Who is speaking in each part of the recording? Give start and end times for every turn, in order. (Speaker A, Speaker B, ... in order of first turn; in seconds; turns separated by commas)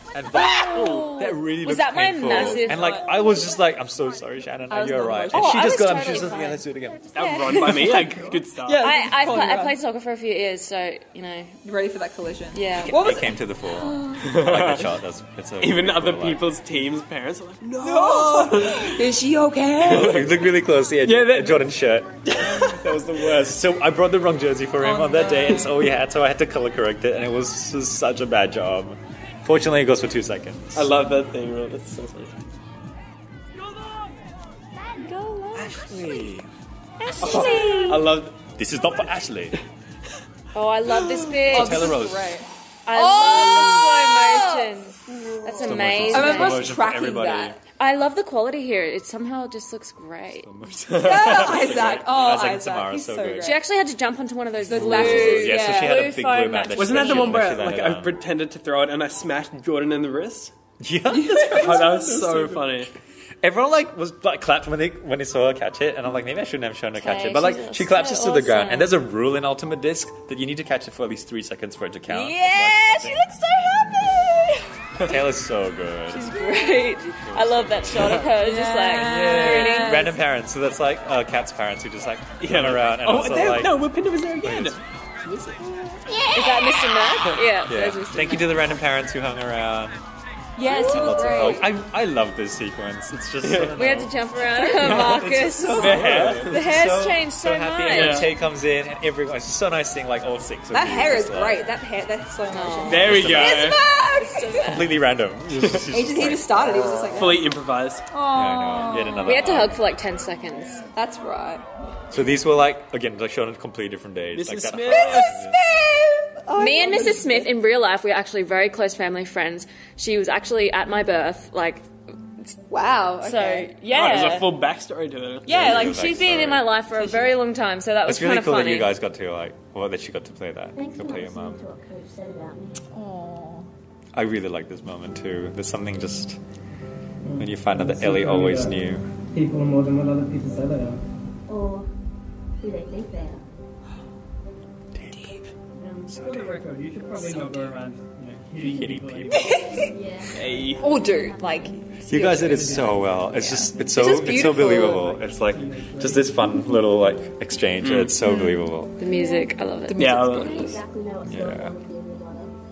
Speaker A: 0.1-7.1, Speaker B: 0.3-3.0, Speaker C: 0.6-1.1, Speaker D: 2.3-3.2, Speaker D: 4.7-6.4, Speaker B: 5.3-6.6, Speaker C: 7.1-9.5, Speaker B: 7.1-8.2, Speaker E: 7.2-7.5, Speaker D: 8.6-9.7, Speaker B: 8.7-11.6, Speaker D: 11.6-14.2, Speaker B: 12.5-13.0, Speaker A: 12.8-16.4, Speaker C: 14.2-14.9, Speaker C: 15.6-19.0, Speaker D: 17.8-20.2, Speaker A: 19.8-30.9, Speaker C: 19.9-20.4, Speaker C: 21.0-21.6, Speaker C: 22.4-23.0, Speaker D: 24.8-25.7, Speaker C: 30.7-32.3, Speaker E: 34.8-36.0, Speaker D: 35.2-35.6, Speaker A: 35.5-36.5, Speaker B: 37.0-38.2, Speaker C: 37.2-38.4, Speaker D: 37.3-37.7, Speaker A: 38.5-39.6, Speaker B: 40.5-42.0, Speaker D: 41.2-47.6, Speaker A: 41.5-42.3, Speaker B: 42.9-46.7, Speaker A: 45.5-47.6, Speaker B: 47.8-50.5, Speaker A: 50.4-53.5, Speaker C: 50.9-51.2, Speaker D: 51.0-53.6, Speaker B: 53.4-57.5, Speaker D: 54.6-56.1, Speaker A: 54.7-58.2, Speaker C: 56.7-60.5, Speaker A: 60.8-62.8, Speaker D: 61.1-61.7, Speaker C: 61.5-62.9, Speaker A: 63.4-73.2, Speaker B: 67.0-68.9, Speaker D: 72.1-74.6, Speaker A: 75.0-76.4, Speaker B: 76.1-80.1, Speaker D: 76.2-76.8, Speaker A: 77.2-78.2, Speaker D: 78.4-80.2, Speaker A: 78.9-83.9, Speaker C: 82.4-86.3, Speaker A: 84.4-84.8, Speaker D: 86.0-87.4, Speaker B: 86.3-88.7, Speaker A: 87.7-90.0, Speaker D: 90.5-91.7, Speaker A: 90.7-101.7, Speaker C: 93.4-93.8, Speaker B: 93.8-98.4, Speaker C: 94.8-96.7, Speaker C: 97.9-98.3, Speaker D: 100.7-104.7, Speaker B: 102.5-105.0, Speaker C: 102.8-103.8, Speaker A: 103.0-103.7, Speaker A: 104.6-107.2, Speaker D: 105.9-107.5, Speaker C: 107.0-108.1, Speaker D: 108.1-109.5, Speaker A: 108.3-109.8, Speaker B: 109.2-110.9, Speaker D: 110.9-111.7, Speaker A: 112.1-115.6, Speaker C: 114.3-115.4, Speaker D: 114.9-117.5, Speaker B: 116.5-121.8, Speaker D: 122.7-123.7, Speaker B: 123.2-124.6, Speaker C: 123.9-125.5, Speaker A: 125.5-126.7, Speaker B: 125.5-128.9, Speaker D: 125.6-126.0, Speaker D: 126.9-127.3, Speaker A: 128.0-131.6, Speaker E: 130.8-132.7, Speaker D: 132.9-133.7, Speaker A: 134.1-136.4, Speaker F: 137.2-138.8, Speaker A: 137.4-139.1, Speaker F: 139.3-141.0, Speaker E: 141.5-141.8, Speaker E: 142.6-143.4, Speaker A: 144.9-145.4, Speaker D: 145.1-145.4, Speaker F: 145.8-150.8, Speaker A: 146.1-146.6, Speaker D: 147.2-147.7, Speaker A: 148.6-149.5, Speaker D: 149.3-149.9, Speaker E: 149.5-151.6, Speaker C: 150.3-150.9, Speaker D: 150.7-155.1, Speaker A: 152.0-159.0, Speaker F: 152.4-153.4, Speaker F: 154.5-156.6, Speaker C: 157.8-158.2, Speaker B: 158.2-160.2, Speaker E: 159.1-159.4, Speaker D: 159.9-160.8, Speaker C: 159.9-160.7, Speaker E: 160.4-162.5, Speaker A: 161.2-161.8